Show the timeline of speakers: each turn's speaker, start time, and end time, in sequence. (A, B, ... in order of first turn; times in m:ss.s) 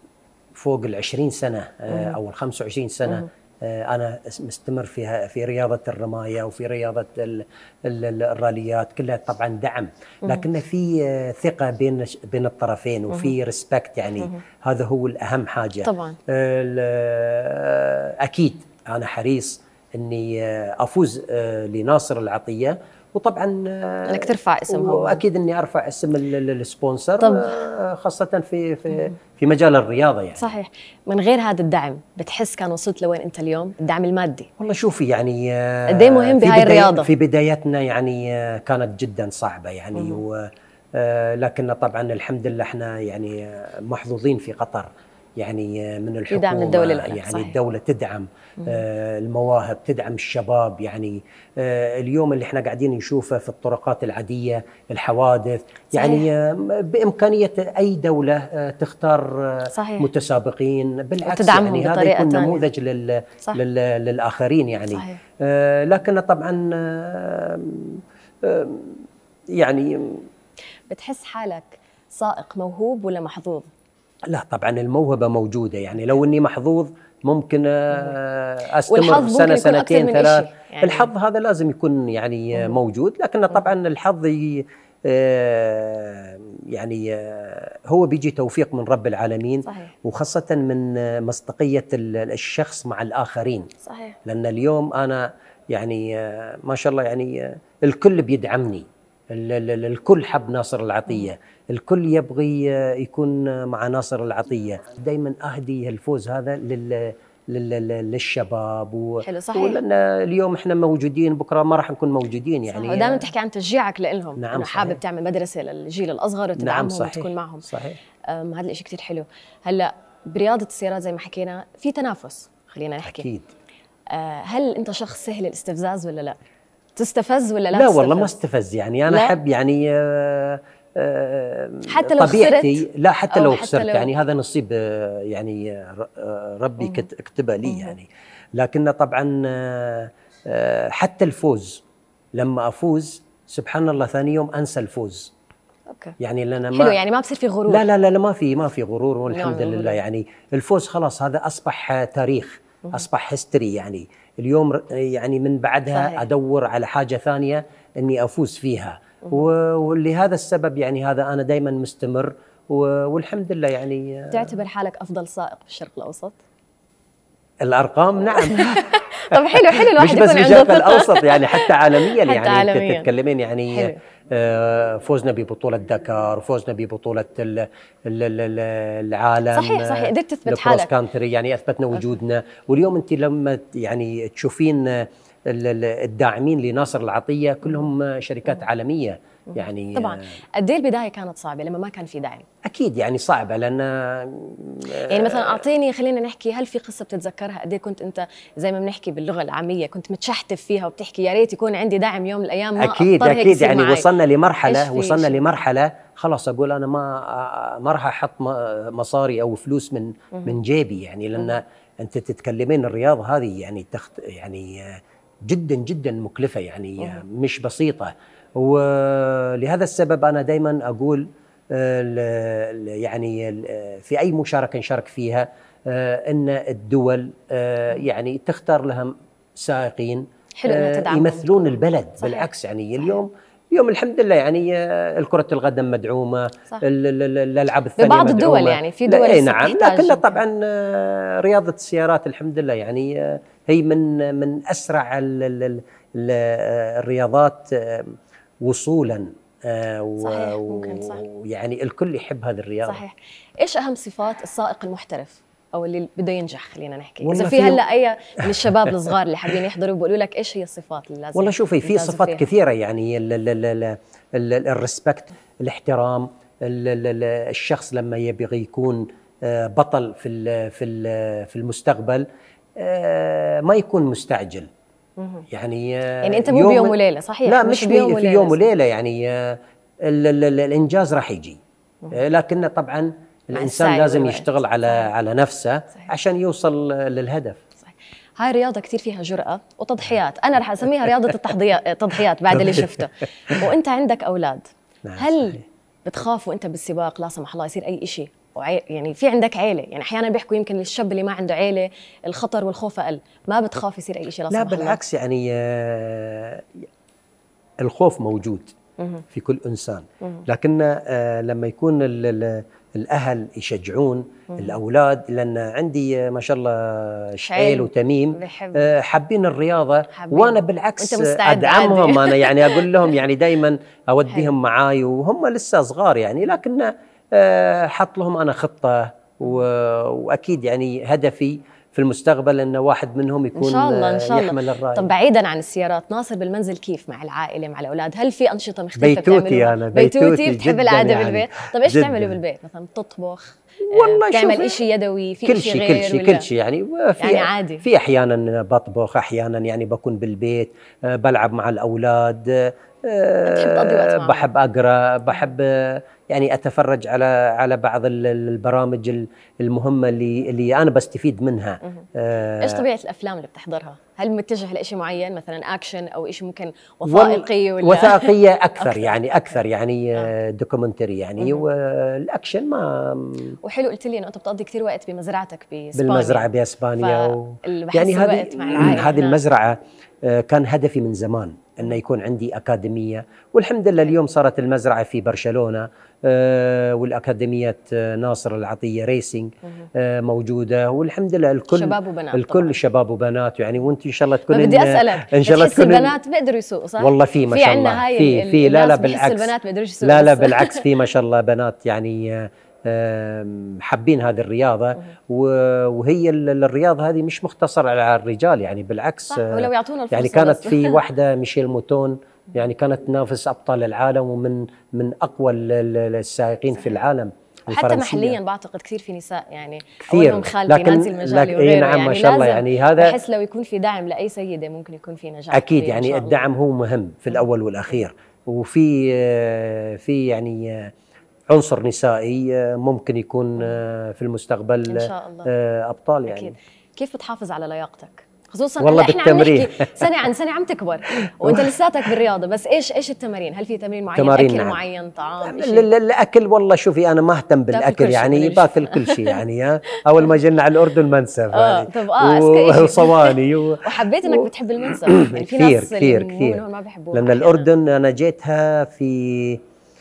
0:00.6-0:30.5 A
0:01.9-0:02.2 B
0:15.8-0:16.2 B
0:24.0-0:25.2 B
0:27.2-0:27.5 B
0:28.9-0:29.1 B
0:30.4-0:34.5 B
0:34.6-1:10.3 A
0:35.9-0:37.1 B
0:39.9-0:40.2 B
0:46.3-0:47.6 B
0:55.9-0:56.2 B
0:59.7-1:00.1 B
1:01.2-1:02.7 B
1:04.9-1:05.2 B
1:10.9-1:13.7 B
1:14.3-1:33.7 A
1:18.9-1:21.1 B
1:29.6-1:29.9 B
1:33.8-1:34.2 B
1:34.2-1:53.3 A
1:49.2-1:49.8 B
1:52.7-1:57.7 B
1:54.4-1:55.0 A
1:56.6-1:58.0 A
1:58.2-2:03.2 B
2:03.0-2:03.5 A
2:04.1-2:06.4 B
2:07.0-2:08.3 B
2:07.7-2:21.8 A
2:09.1-2:09.4 B
2:11.9-2:14.1 B
2:16.8-2:17.0 B
2:17.6-2:17.9 B
2:22.4-2:25.3 A
2:25.9-2:26.2 B
2:26.2-2:27.0 A
2:26.7-2:27.8 B
2:27.7-2:44.5 A
2:29.3-2:30.0 B
2:35.9-2:36.2 B
2:44.3-2:46.4 B
2:47.6-3:10.3 A
2:48.4-2:53.1 B
2:53.7-2:54.0 B
2:59.5-3:00.9 B
3:09.5-3:12.4 B
3:12.6-3:15.6 A
3:14.9-3:24.1 B
3:22.8-4:13.0 A
3:24.6-3:25.6 B
3:30.3-3:30.6 B
3:50.6-3:52.5 B
3:58.0-4:00.4 B
4:10.2-4:11.2 B
4:12.8-4:22.4 B
4:17.2-4:17.8 A
4:18.4-4:19.1 A
4:21.3-4:32.2 A
4:32.8-4:34.7 A
4:35.2-4:35.5 B
4:35.5-4:41.6 A
4:36.2-4:38.6 B
4:42.1-4:47.6 A
4:43.5-4:44.5 B
4:47.8-5:05.0 B
4:52.5-4:53.6 A
4:55.0-4:55.6 A
5:04.5-5:06.8 A
5:07.8-5:08.7 A
5:09.3-5:35.1 A
5:17.5-5:18.9 B
5:20.1-5:22.8 B
5:33.5-5:46.4 B
5:39.0-5:42.3 A
5:43.9-5:44.8 A
5:45.4-6:02.8 A
5:47.2-5:47.8 B
5:53.4-5:54.5 B
6:02.6-6:09.2 B
6:07.0-6:13.6 A
6:13.6-6:19.4 B
6:15.9-6:36.1 A
6:31.7-6:32.8 B
6:34.5-6:40.8 B
6:37.0-6:58.4 A
6:49.3-6:51.0 B
6:57.7-7:06.4 B
7:00.0-7:03.2 A
7:05.5-7:10.9 A
7:11.5-7:16.5 A
7:14.9-7:15.5 B
7:16.2-7:25.9 B
7:18.8-7:20.1 A
7:21.4-7:21.7 A
7:24.1-7:24.8 A
7:25.4-7:39.6 A
7:27.7-7:29.4 B
7:31.5-7:37.6 B